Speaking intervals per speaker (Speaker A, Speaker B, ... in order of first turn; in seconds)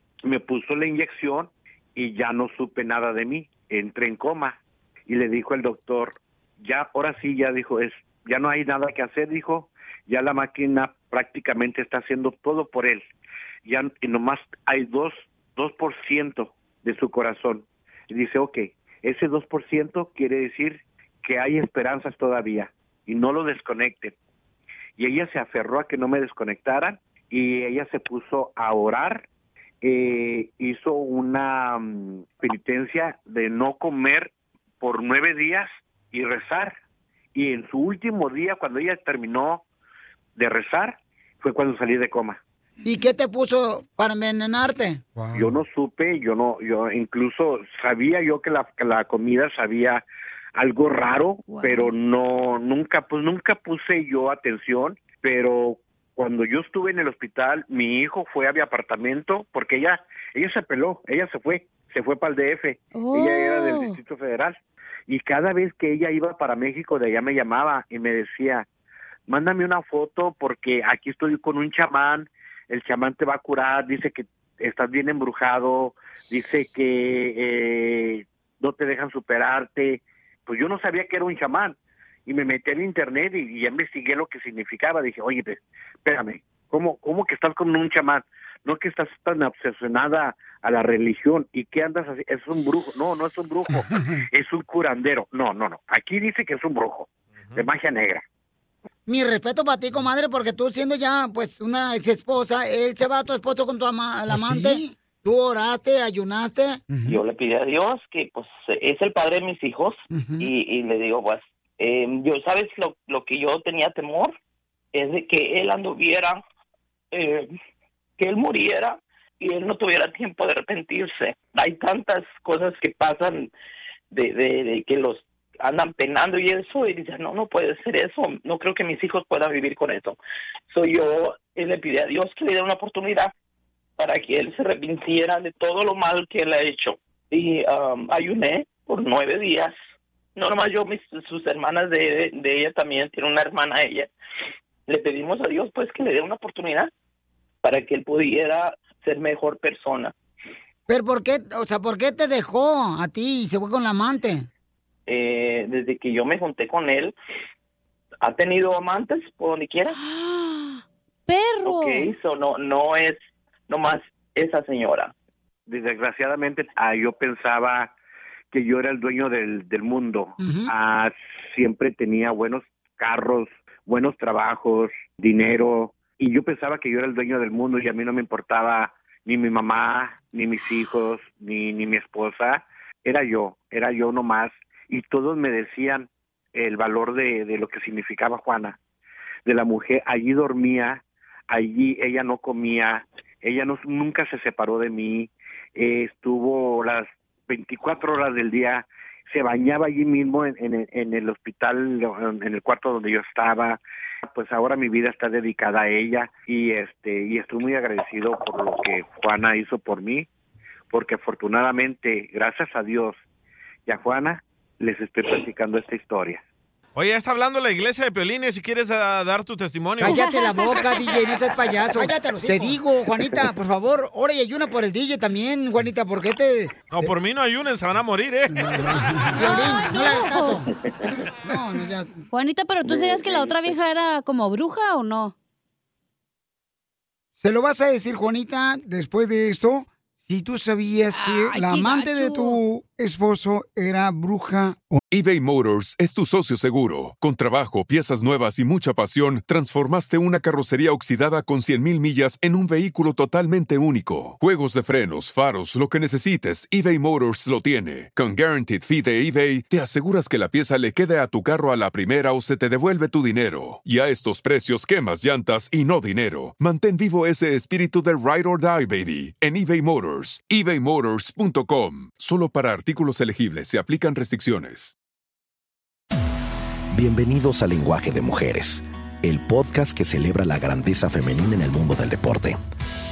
Speaker A: 0.2-13.0, 13.6-24.1, 25.0-29.2, 29.8-36.8, 37.3-39.6, 40.4-42.4, 45.4-50.0, 50.5-68.7, 69.3-98.2, 165.7-167.9, 168.5-188.8, 189.4-210.3, 210.9-213.2, 213.9-216.4
Speaker B: 42.8-45.5, 99.1-107.2, 110.1-110.5, 150.9-154.5, 170.4-170.7, 220.0-227.1, 228.6-230.7, 231.4-232.1, 237.4-245.0
Speaker C: 51.5-52.0, 62.9-64.0, 159.9-162.1, 220.1-221.0, 229.3-230.6, 232.3-235.3, 241.1-242.6
Speaker D: 107.1-114.4, 114.9-116.4, 117.1-117.5, 118.2-123.5, 124.1-130.2, 130.7-133.3, 134.0-139.8, 140.4-144.1, 144.9-146.9, 147.6-150.1, 155.1-157.2, 158.2-160.0, 161.6-165.1, 232.8-233.7
Speaker E: 217.0-220.2, 226.9-229.0
Speaker F: 245.1-274.9
Speaker G: 276.9-282.6